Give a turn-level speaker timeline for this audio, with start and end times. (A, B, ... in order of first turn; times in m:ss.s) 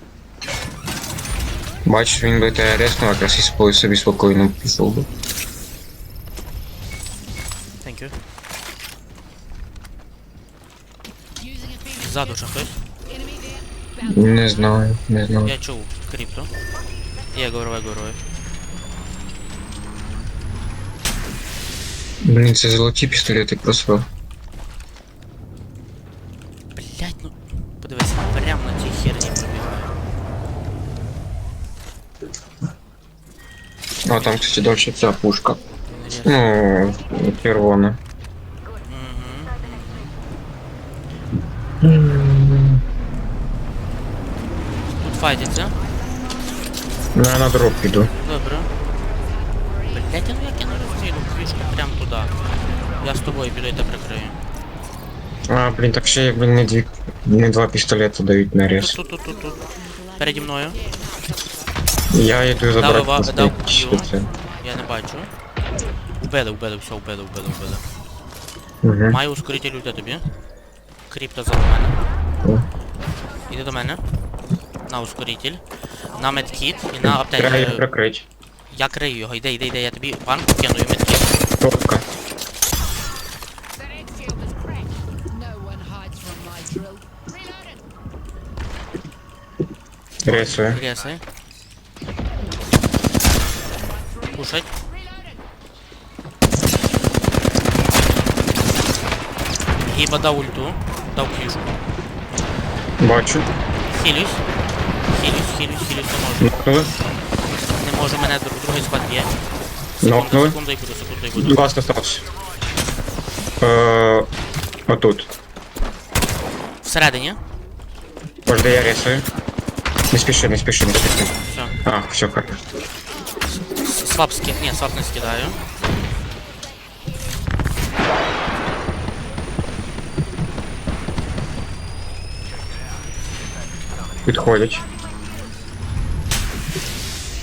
0:01.8-0:05.1 A
0:07.8-0:08.1 B
0:11.4-0:12.0 C
0:11.9-0:12.8 B
0:13.1-0:14.4 C
0:14.0-0:15.5 A
0:15.4-0:16.5 B
0:17.3-0:18.2 B
0:22.2-0:24.1 A
0:26.7-0:29.9 B
0:34.0-0:35.6 A
0:35.8-0:36.6 B
0:36.2-0:38.0 A
0:38.8-0:40.1 B
0:41.8-0:42.8 A
0:45.0-0:45.8 B
0:47.1-0:48.1 A
0:48.1-0:48.7 B
0:49.9-0:52.4 B
0:52.9-0:54.4 B
0:55.5-0:59.0 A
0:58.7-0:59.6 B
0:59.6-1:00.2 C
1:00.2-1:00.8 B
1:00.8-1:01.6 C
1:02.1-1:04.3 A
1:02.8-1:04.1 B
1:04.2-1:04.5 C
1:04.6-1:05.3 B
1:06.2-1:07.8 B
1:08.8-1:09.2 A
1:09.1-1:10.2 B
1:11.1-1:12.0 B
1:13.5-1:14.2 B
1:14.9-1:17.8 B
1:17.0-1:18.2 A
1:18.7-1:21.4 B
1:21.6-1:22.0 A
1:23.8-1:27.7 C
1:30.2-1:30.8 A
1:30.2-1:31.2 B
1:33.8-1:34.2 C
1:34.3-1:34.7 B
1:39.8-1:41.8 B
1:43.0-1:43.5 A
1:43.8-1:44.4 B
1:45.1-1:46.6 B
1:46.4-1:46.9 A
1:47.4-1:49.3 B
1:50.0-1:51.7 B
1:50.0-1:50.6 A
1:51.4-1:52.2 A
1:53.6-1:54.3 A
1:54.9-1:55.3 A
1:56.8-1:57.4 B
1:58.5-1:59.2 A
2:00.1-2:01.3 A
2:01.4-2:01.8 B
2:01.8-2:02.6 A
2:03.3-2:05.6 B
2:14.2-2:14.9 A